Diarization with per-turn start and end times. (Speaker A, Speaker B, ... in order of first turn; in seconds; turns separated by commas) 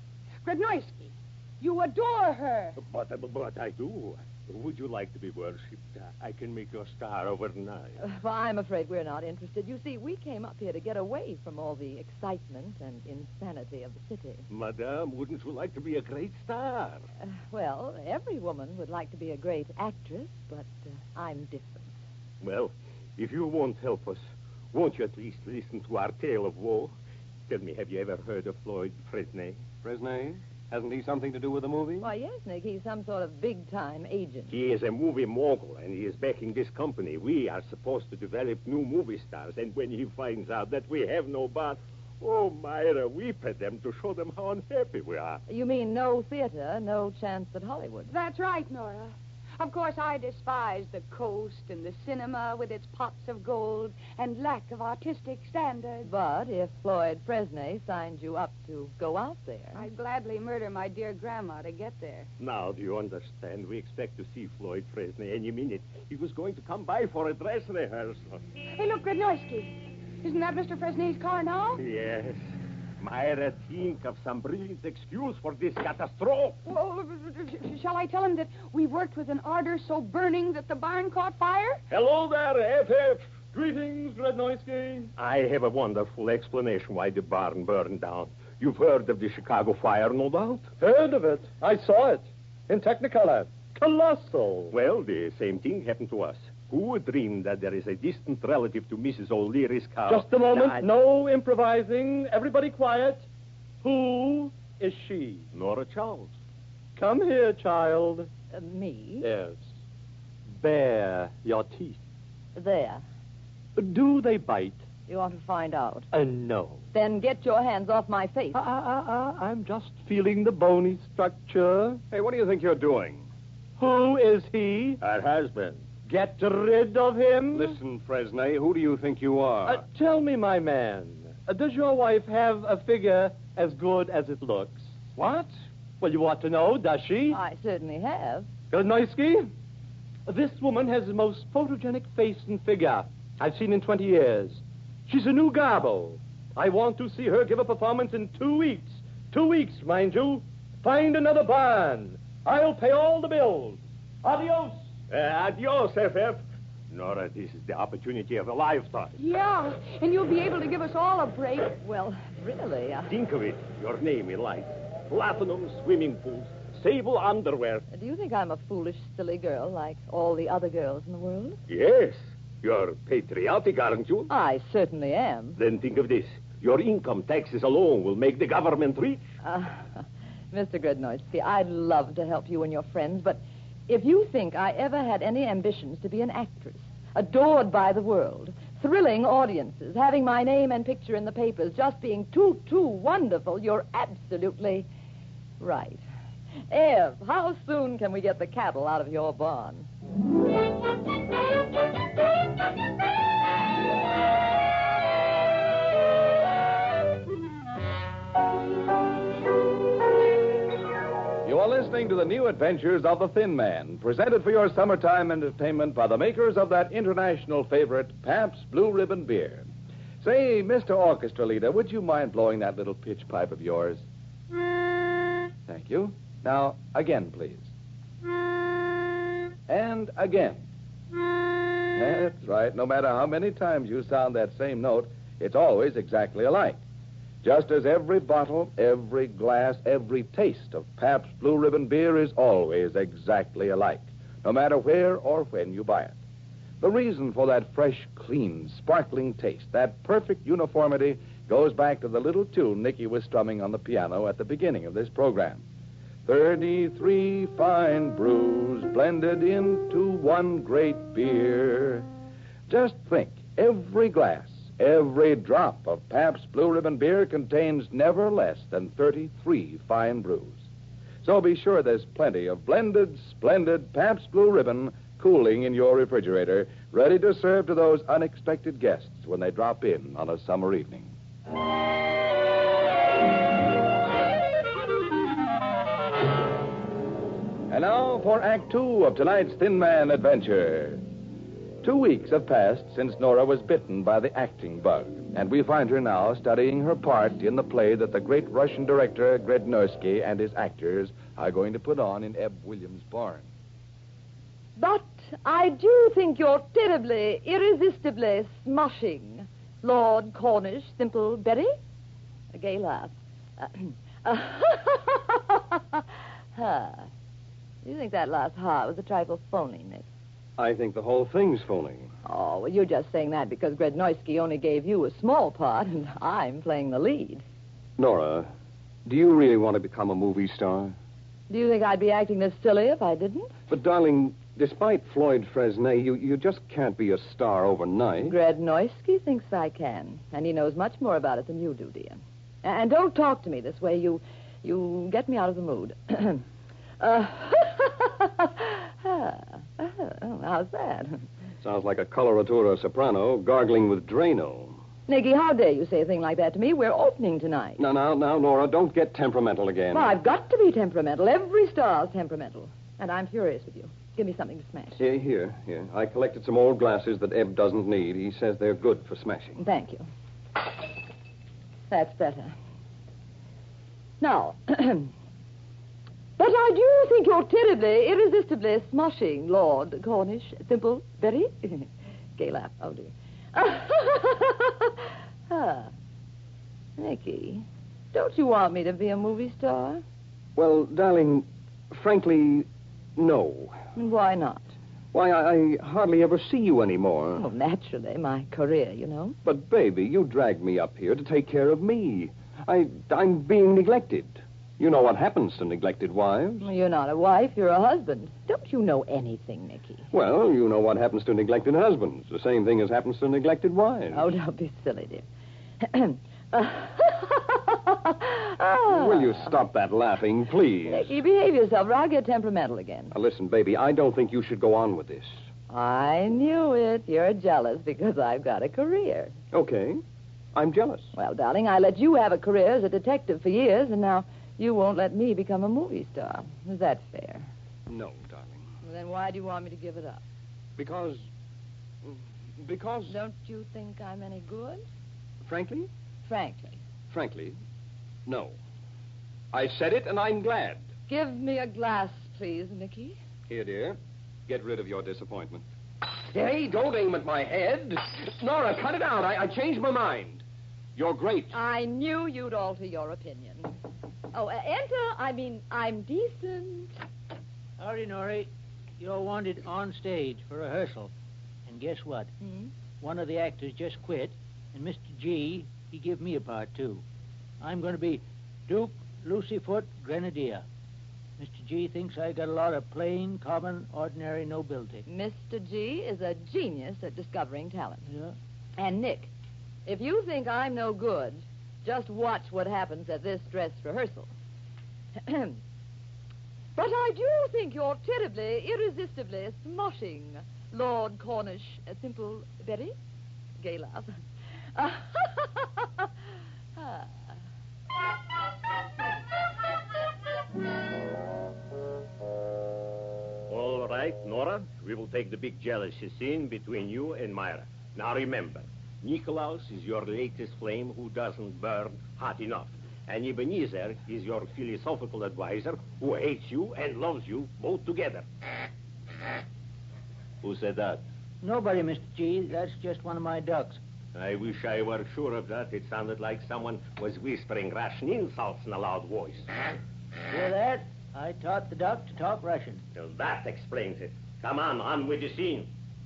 Speaker A: 0.4-2.8, Speaker B: 2.8-8.0, Speaker C: 8.0-14.4, Speaker B: 14.5-17.0, Speaker C: 17.5-21.9, Speaker B: 22.4-26.9, Speaker B: 27.5-29.6, Speaker D: 29.8-32.1, Speaker C: 32.0-34.5, Speaker B: 34.5-45.4, Speaker C: 45.5-48.1, Speaker A: 48.1-56.1, Speaker C: 56.1-59.8, Speaker A: 59.8-62.3, Speaker B: 62.4-68.4, Speaker A: 68.8-71.8, Speaker B: 71.8-72.5, Speaker B: 73.0-76.6, Speaker A: 76.7-81.8, Speaker B: 81.9-83.3, Speaker E: 83.5-85.1, Speaker B: 85.2-90.7, Speaker E: 90.8-94.8, Speaker B: 94.7-100.9, Speaker E: 100.1-103.2, Speaker E: 103.8-105.5, Speaker B: 105.5-106.3, Speaker E: 107.0-108.3, Speaker C: 108.5-109.3, Speaker E: 109.2-109.7, Speaker E: 110.5-112.0, Speaker C: 112.5-113.0, Speaker E: 113.8-114.8, Speaker C: 115.1-116.1, Speaker E: 116.1-116.8, Speaker C: 116.9-118.6, Speaker E: 118.5-122.0, Speaker D: 122.1-123.3, Speaker E: 123.8-125.0, Speaker B: 125.0-125.8, Speaker E: 126.1-127.8, Speaker D: 127.5-129.8, Speaker E: 129.7-137.4, Speaker C: 137.3-138.5, Speaker E: 138.7-139.5, Speaker E: 140.3-154.8, Speaker B: 155.1-159.2, Speaker A: 159.2-161.8, Speaker C: 161.8-163.1, Speaker B: 163.1-167.8, Speaker C: 167.9-171.6, Speaker B: 171.7-174.3, Speaker C: 174.3-175.6, Speaker B: 175.6-179.2, Speaker C: 179.4-194.9, Speaker C: 195.6-196.0, Speaker C: 196.7-199.9, Speaker F: 211.4-219.7, Speaker F: 220.2-224.0, Speaker F: 225.7-227.7, Speaker F: 229.7-230.6, Speaker F: 231.9-236.8, Speaker F: 237.4-246.2, Speaker F: 246.8-255.6, Speaker F: 256.3-262.1, Speaker F: 262.7-270.6, Speaker F: 271.2-281.1, Speaker F: 287.7-291.0, Speaker F: 291.8-303.4, Speaker C: 304.8-311.8, Speaker C: 312.5-317.1, Speaker C: 317.8-320.1, Speaker D: 320.6-322.1, Speaker C: 322.2-327.4, Speaker D: 328.0-328.5, Speaker D: 329.1-330.9, Speaker C: 331.5-333.5, Speaker D: 333.7-338.4, Speaker C: 338.3-346.4, Speaker C: 347.0-351.2, Speaker D: 351.6-354.8, Speaker C: 355.1-357.8, Speaker D: 357.8-360.1, Speaker C: 359.9-365.0, Speaker D: 365.0-369.6, Speaker C: 369.6-370.1, Speaker C: 371.9-372.6, Speaker C: 374.2-375.1, Speaker C: 376.4-385.9, Speaker C: 387.0-390.0, Speaker D: 390.6-393.8, Speaker C: 394.0-394.7, Speaker D: 395.1-397.4, Speaker C: 397.4-399.4, Speaker D: 399.4-406.7, Speaker C: 406.6-410.1, Speaker D: 410.1-414.3, Speaker C: 414.1-415.2, Speaker C: 415.8-419.5, Speaker D: 418.9-421.1, Speaker C: 420.9-423.1, Speaker D: 423.1-425.3, Speaker C: 425.7-429.4, Speaker D: 429.5-430.0, Speaker D: 430.6-431.1, Speaker C: 431.2-437.5, Speaker D: 437.9-438.7, Speaker C: 438.8-440.2, Speaker D: 440.8-441.3, Speaker D: 442.0-443.2, Speaker C: 443.1-444.8, Speaker D: 445.4-445.9, Speaker C: 446.2-446.8, Speaker D: 447.1-447.6, Speaker D: 448.3-448.6, Speaker D: 449.5-450.9, Speaker C: 451.1-453.2, Speaker D: 453.5-460.4, Speaker D: 461.0-461.6, Speaker C: 461.5-463.7, Speaker C: 464.3-466.9, Speaker G: 467.8-471.1, Speaker G: 471.7-472.3, Speaker C: 472.4-472.7, Speaker G: 473.0-477.0, Speaker G: 477.6-480.6, Speaker G: 481.4-485.1, Speaker C: 485.1-488.1, Speaker G: 488.1-488.4, Speaker C: 488.8-489.3, Speaker C: 489.9-494.3, Speaker C: 495.2-495.6, Speaker C: 496.8-502.9, Speaker C: 503.6-504.1, Speaker C: 504.7-506.1, Speaker C: 506.8-507.4, Speaker B: 513.5-528.2, Speaker B: 530.4-531.0, Speaker G: 531.4-533.8, Speaker B: 534.1-539.5, Speaker G: 540.3-542.8, Speaker B: 543.0-545.7